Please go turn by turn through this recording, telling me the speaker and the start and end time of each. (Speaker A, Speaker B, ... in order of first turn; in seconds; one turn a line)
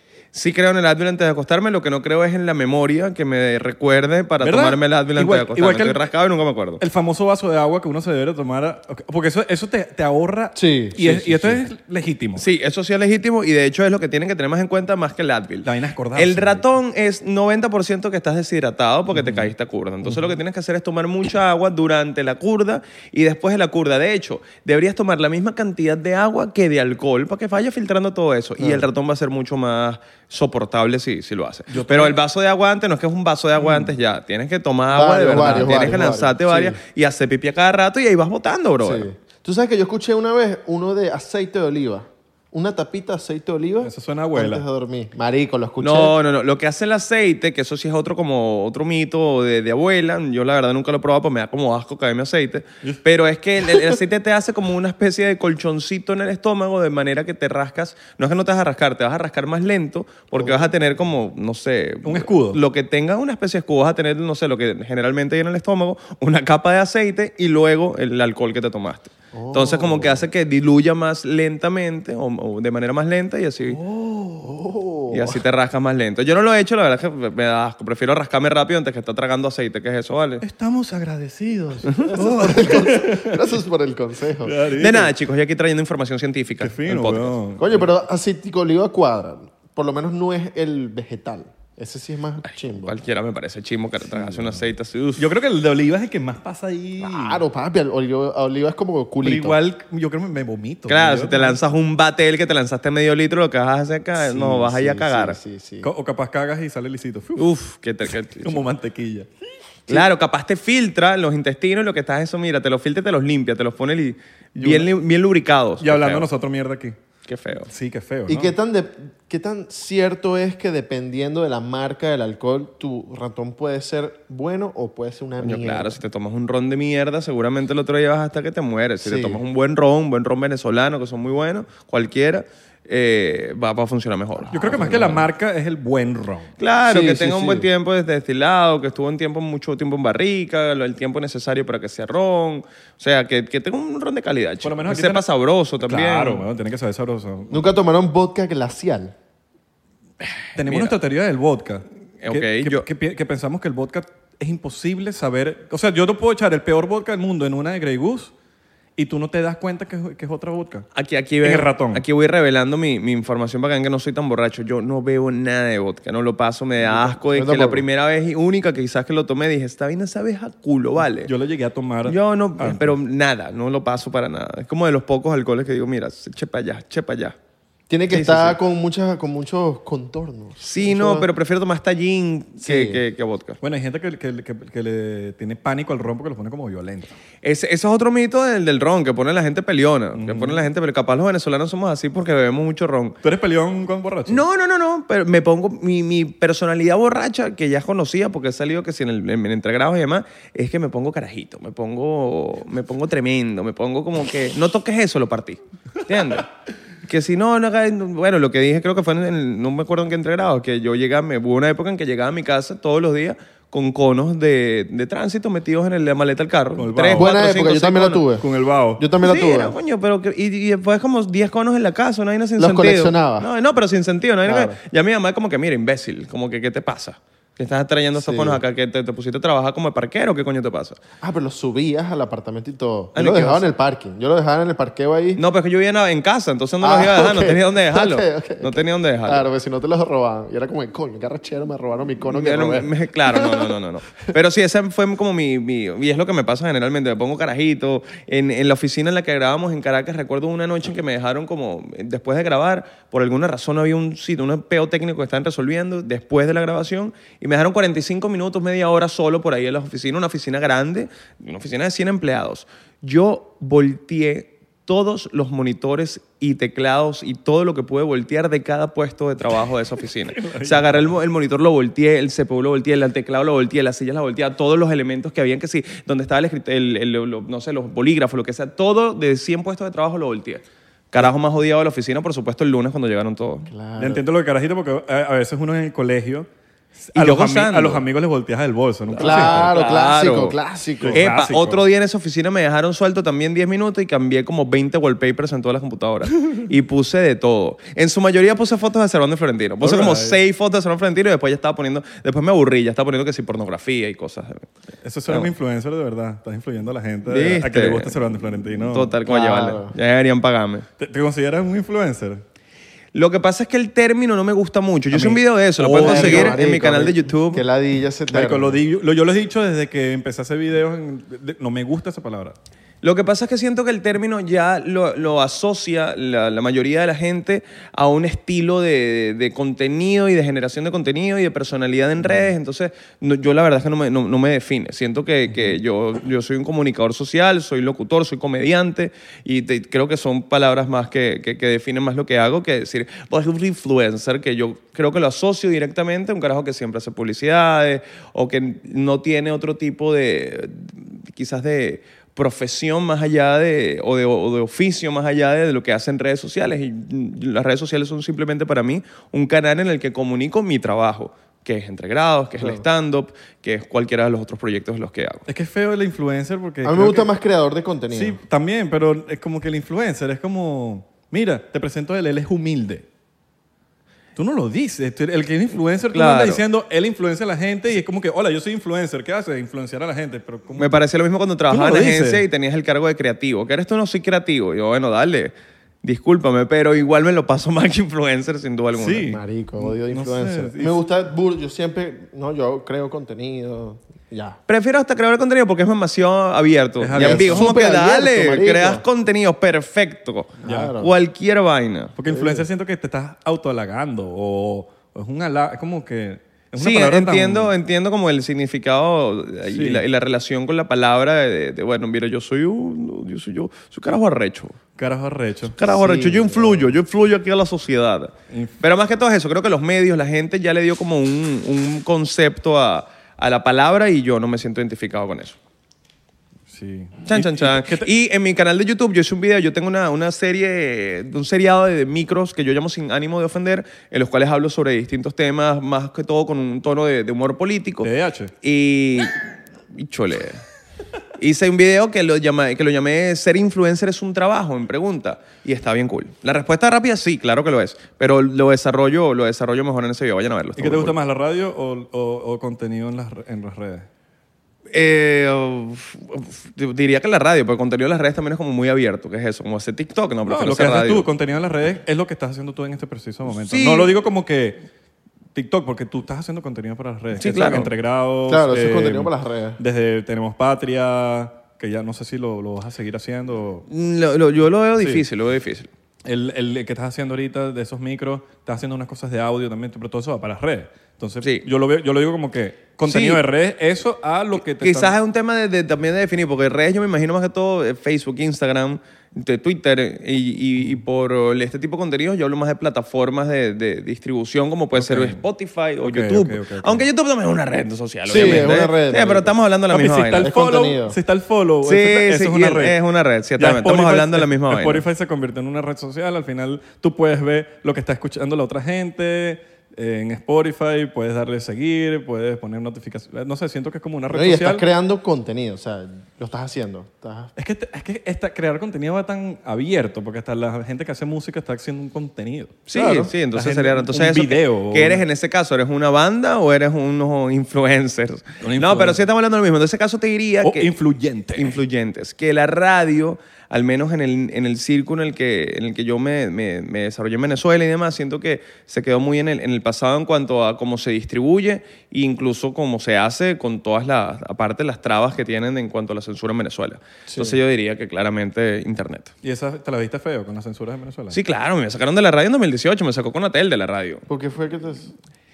Speaker A: 0.3-6.8
Speaker B: 4.4-6.0
Speaker B: 6.8-12.4
Speaker C: 10.5-11.6
Speaker A: 12.3-39.1
Speaker B: 15.6-16.7
Speaker C: 28.6-28.9
Speaker B: 31.7-32.2
Speaker C: 34.9-36.8
Speaker C: 38.8-46.1
Speaker B: 43.8-44.6
Speaker A: 45.8-73.8
Speaker C: 60.3-60.7
Speaker B: 62.0-62.6
Speaker C: 69.3-70.2
Speaker B: 73.7-74.6
Speaker C: 74.4-75.4
Speaker A: 75.1-80.4
Speaker B: 80.4-83.5
Speaker A: 81.8-82.1
Speaker C: 82.0-84.6
Speaker B: 84.4-85.1
Speaker A: 84.8-87.3
Speaker B: 86.6-87.9
Speaker C: 87.6-92.9
Speaker A: 92.4-95.3
Speaker C: 94.1-94.6
Speaker B: 95.2-97.4
Speaker C: 97.0-99.6
Speaker B: 99.2-101.6
Speaker A: 100.9-105.4
Speaker C: 104.1-105.9
Speaker B: 105.8-107.5
Speaker A: 107.3-108.6
Speaker B: 108.4-109.3
Speaker A: 109.9-116.2
Speaker B: 114.6-114.9
Speaker B: 115.8-117.0
Speaker A: 117.3-117.7
Speaker B: 117.7-118.5
Speaker C: 118.3-126.0
Speaker A: 125.4-135.2
Speaker C: 129.0-129.4
Speaker B: 134.5-136.5
Speaker C: 134.7-134.9
Speaker A: 136.6-146.4
Speaker C: 136.9-137.7
Speaker B: 144.6-145.2
Speaker B: 145.8-147.7
Speaker C: 147.5-149.1
Speaker B: 150.5-158.3
Speaker A: 150.6-150.9
Speaker A: 152.2-152.8
Speaker B: 159.0-160.9
Speaker A: 160.9-171.3
Speaker B: 161.4-162.0
Speaker C: 166.9-167.8
Speaker B: 171.2-172.9
Speaker A: 172.0-177.3
Speaker C: 177.9-181.3
Speaker A: 178.1-178.6
Speaker A: 180.6-183.6
Speaker C: 182.6-183.0
Speaker B: 183.6-187.2
Speaker A: 187.4-193.2
Speaker B: 190.1-190.7
Speaker B: 193.2-194.4
Speaker A: 194.3-206.5
Speaker A: 207.0-218.2
Speaker B: 216.8-217.3
Speaker C: 217.1-218.4
Speaker B: 218.4-219.0
Speaker C: 219.0-219.7
Speaker A: 219.2-231.0
Speaker C: 222.6-223.5
Speaker C: 224.4-224.8
Speaker C: 228.2-228.6
Speaker C: 231.2-235.4
Speaker A: 233.1-233.6
Speaker A: 235.3-239.4
Speaker C: 236.8-243.7
Speaker A: 242.3-283.7
Speaker B: 270.3-271.1
Speaker C: 283.7-284.2
Speaker B: 284.0-289.7
Speaker A: 287.1-288.0
Speaker A: 289.1-290.6
Speaker C: 289.2-291.2
Speaker B: 291.0-291.8
Speaker A: 291.1-304.7
Speaker B: 299.8-300.4
Speaker B: 305.0-309.1
Speaker A: 307.2-308.2
Speaker A: 308.8-310.9
Speaker C: 309.2-309.9
Speaker B: 311.0-312.4
Speaker A: 313.1-317.6
Speaker B: 315.1-316.6
Speaker C: 316.0-318.8
Speaker B: 318.3-322.6
Speaker A: 323.0-365.4
Speaker B: 335.5-335.8
Speaker B: 365.4-367.3
Speaker C: 366.8-368.4
Speaker B: 368.1-373.0
Speaker B: 374.4-381.0
Speaker A: 376.1-376.6
Speaker A: 380.8-389.3
Speaker B: 381.7-382.4
Speaker B: 388.9-391.0
Speaker C: 389.2-394.6
Speaker A: 394.7-402.1
Speaker B: 397.0-397.7
Speaker C: 397.2-399.0
Speaker C: 400.6-401.1
Speaker B: 400.6-401.0
Speaker B: 402.1-407.7
Speaker C: 402.3-402.7
Speaker A: 406.8-414.8
Speaker B: 409.7-410.0
Speaker B: 415.0-415.8
Speaker A: 415.8-425.6
Speaker C: 415.8-416.9
Speaker B: 426.7-428.1
Speaker A: 427.3-438.1
Speaker B: 438.0-438.5
Speaker A: 438.6-439.4
Speaker A: 439.9-440.6
Speaker A: 441.4-451.1
Speaker B: 450.8-454.1
Speaker A: 454.9-461.2
Speaker B: 460.4-464.9
Speaker A: 463.5-464.1
Speaker B: 465.5-473.9
Speaker A: 467.4-467.9
Speaker C: 468.5-469.8
Speaker A: 473.9-475.9
Speaker B: 475.0-475.2
Speaker B: 476.2-485.1
Speaker A: 483.0-483.4
Speaker A: 484.7-500.5
Speaker B: 494.9-495.4
Speaker B: 496.0-497.1
Speaker C: 498.3-499.5
Speaker B: 498.3-498.7
Speaker B: 499.9-503.0
Speaker C: 500.4-501.2
Speaker A: 501.8-505.0
Speaker B: 503.6-514.8
Speaker C: 514.3-517.5
Speaker B: 517.5-525.2
Speaker A: 522.9-530.9
Speaker C: 522.9-523.3
Speaker B: 528.6-529.2
Speaker B: 530.6-531.8
Speaker A: 531.5-549.3
Speaker C: 547.3-547.6
Speaker B: 549.4-551.4
Speaker A: 551.3-554.2
Speaker C: 554.3-555.1